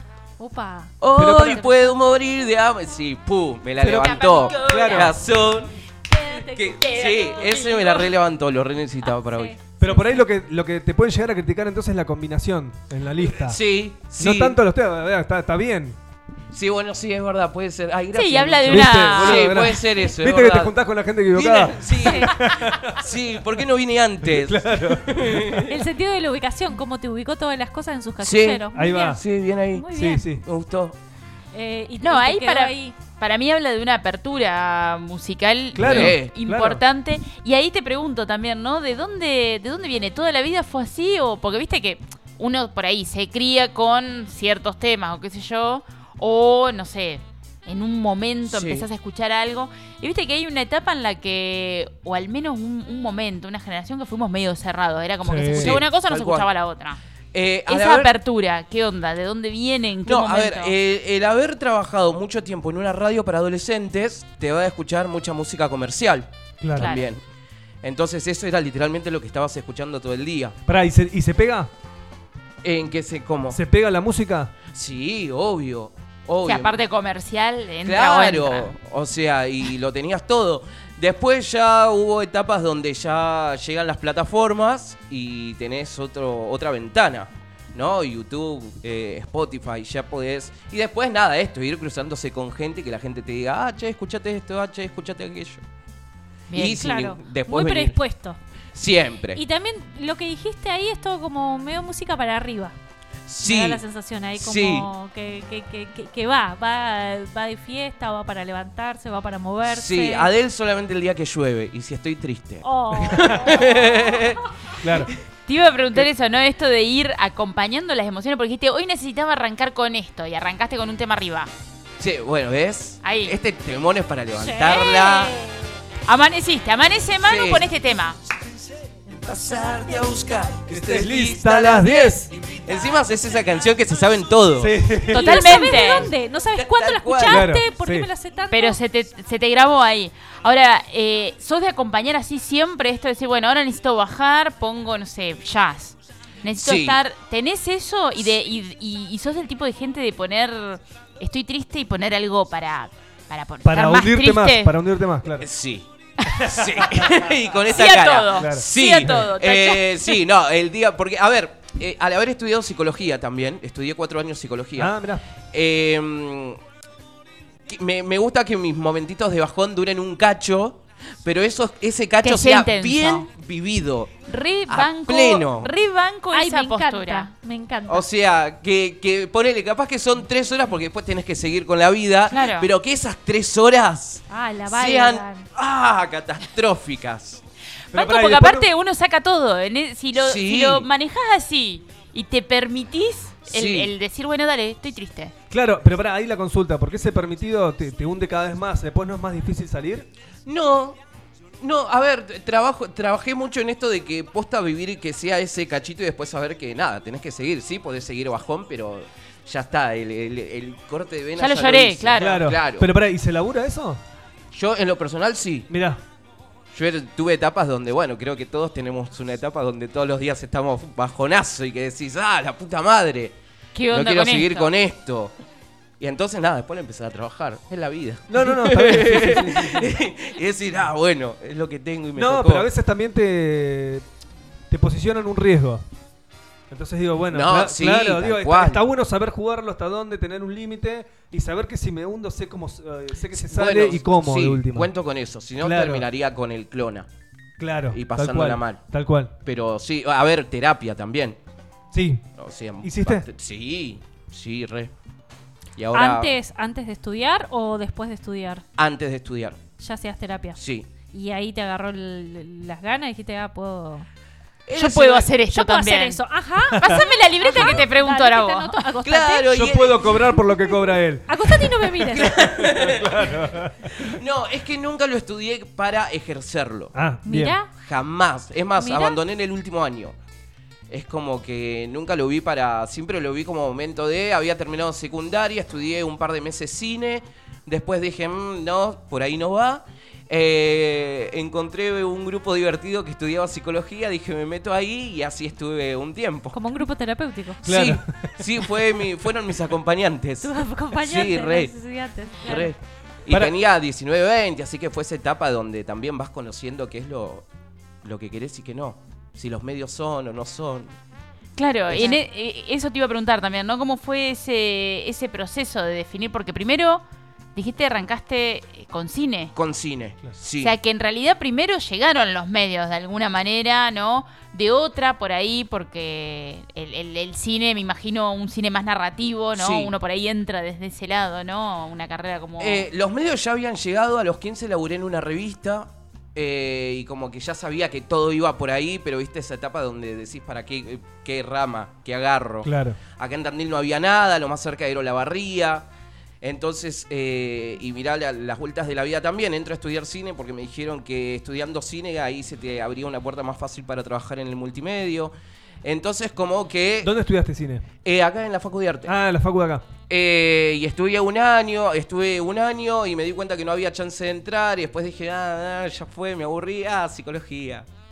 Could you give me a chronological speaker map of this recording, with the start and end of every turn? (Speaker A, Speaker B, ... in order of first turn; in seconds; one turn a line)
Speaker A: 0.4-1.9
Speaker B: 1.0-5.7
Speaker C: 1.1-1.6
Speaker C: 3.8-5.1
Speaker D: 3.9-5.1
Speaker A: 6.1-7.5
Speaker B: 6.5-9.5
Speaker D: 6.8-8.1
Speaker A: 9.2-10.2
Speaker C: 9.8-13.6
Speaker B: 13.4-14.6
Speaker C: 14.1-16.0
Speaker B: 16.5-20.7
Speaker D: 18.1-19.8
Speaker C: 18.6-23.0
Speaker B: 21.3-25.7
Speaker A: 22.0-22.3
Speaker C: 24.2-25.6
Speaker A: 25.7-29.2
Speaker B: 28.2-30.9
Speaker C: 28.7-29.2
Speaker A: 29.7-30.2
Speaker C: 29.9-30.4
Speaker A: 31.5-32.9
Speaker D: 32.0-57.0
Speaker C: 35.7-36.8
Speaker B: 35.8-36.3
Speaker B: 48.5-48.9
Speaker C: 55.2-55.8
Speaker B: 55.5-56.5
Speaker B: 57.3-58.1
Speaker D: 57.7-60.8
Speaker B: 60.0-67.2
Speaker C: 66.6-66.9
Speaker D: 66.8-67.1
Speaker B: 67.8-70.6
Speaker C: 70.7-71.7
Speaker B: 72.6-73.6
Speaker C: 73.5-74.5
Speaker B: 74.7-76.8
Speaker D: 76.4-78.7
Speaker B: 77.8-95.6
Speaker D: 96.5-96.8
Speaker B: 96.5-98.0
Speaker A: 96.7-98.4
Speaker B: 98.7-99.4
Speaker A: 99.3-102.7
Speaker B: 103.3-103.8
Speaker A: 103.4-110.3
Speaker B: 104.3-104.9
Speaker B: 109.7-114.4
Speaker A: 112.6-114.3
Speaker C: 114.8-115.1
Speaker D: 115.5-121.5
Speaker B: 122.0-125.3
Speaker D: 123.0-123.4
Speaker A: 124.3-125.8
Speaker D: 126.1-128.2
Speaker B: 127.2-127.6
Speaker B: 129.1-134.8
Speaker C: 130.7-132.3
Speaker C: 134.6-135.7
Speaker D: 135.1-136.1
Speaker A: 135.1-138.8
Speaker B: 136.5-137.5
Speaker C: 137.2-138.1
Speaker D: 138.5-154.7
Speaker B: 146.5-147.0
Speaker C: 153.6-155.4
Speaker B: 155.4-155.9
Speaker C: 156.3-156.9
Speaker B: 156.4-165.0
Speaker D: 157.7-160.2
Speaker C: 158.3-159.3
Speaker C: 164.8-165.2
Speaker B: 165.5-166.6
Speaker B: 167.7-175.7
Speaker D: 172.2-173.2
Speaker D: 174.3-177.3
Speaker A: 176.3-178.1
Speaker B: 177.9-187.4
Speaker D: 182.3-182.7
Speaker A: 184.3-185.5
Speaker D: 187.9-195.3
Speaker C: 187.9-188.7
Speaker B: 190.2-190.9
Speaker B: 193.5-193.9
Speaker C: 195.5-200.1
Speaker B: 200.4-201.0
Speaker B: 201.6-212.9
Speaker D: 211.4-212.5
Speaker C: 212.2-214.0
Speaker B: 214.5-215.7
Speaker C: 215.7-216.0
Speaker B: 216.7-223.3
Speaker D: 223.7-224.7
Speaker B: 223.9-225.3
Speaker B: 226.0-232.7
Speaker C: 228.3-230.0
Speaker C: 232.1-234.0
Speaker C: 234.7-235.8
Speaker C: 236.7-244.9
Speaker B: 237.3-238.8
Speaker B: 243.3-247.1
Speaker C: 245.6-246.1
Speaker C: 247.6-249.3
Speaker B: 247.9-248.8
Speaker B: 249.4-251.4
Speaker C: 251.9-252.2
Speaker B: 252.4-254.9
Speaker C: 252.8-253.2
Speaker B: 255.8-256.4
Speaker A: 255.9-258.6
Speaker B: 258.8-259.6
Speaker A: 259.8-260.6
Speaker B: 260.6-260.9
Speaker A: 261.1-264.1
Speaker B: 264.7-265.3
Speaker D: 264.7-266.2
Speaker A: 265.5-269.7
Speaker C: 266.7-267.0
Speaker D: 266.8-268.8
Speaker B: 269.0-270.2
Speaker C: 269.5-271.6
Speaker A: 271.3-272.4
Speaker B: 272.1-273.4
Speaker C: 272.2-273.9
Speaker B: 274.0-276.9
Speaker C: 276.9-277.6
Speaker A: 277.2-277.7
Speaker B: 277.7-280.1
Speaker A: 278.8-279.2
Speaker B: 280.9-296.6
Speaker A: 296.5-297.6
Speaker C: 297.6-298.3
Speaker B: 297.6-301.7
Speaker A: 300.4-302.7
Speaker B: 302.4-307.5
Speaker C: 303.3-303.5
Speaker B: 308.0-310.9
Speaker D: 311.6-317.0
Speaker B: 311.9-312.2
Speaker D: 317.5-319.5
Speaker B: 319.5-320.7
Speaker D: 320.6-332.9
Speaker B: 329.6-329.9
Speaker B: 332.6-345.9
Speaker C: 342.6-343.0
Speaker B: 346.4-355.3
Speaker B: 355.8-357.1
Speaker C: 357.0-357.9
Speaker B: 358.0-359.1
Speaker C: 359.1-359.8
Speaker B: 360.1-367.9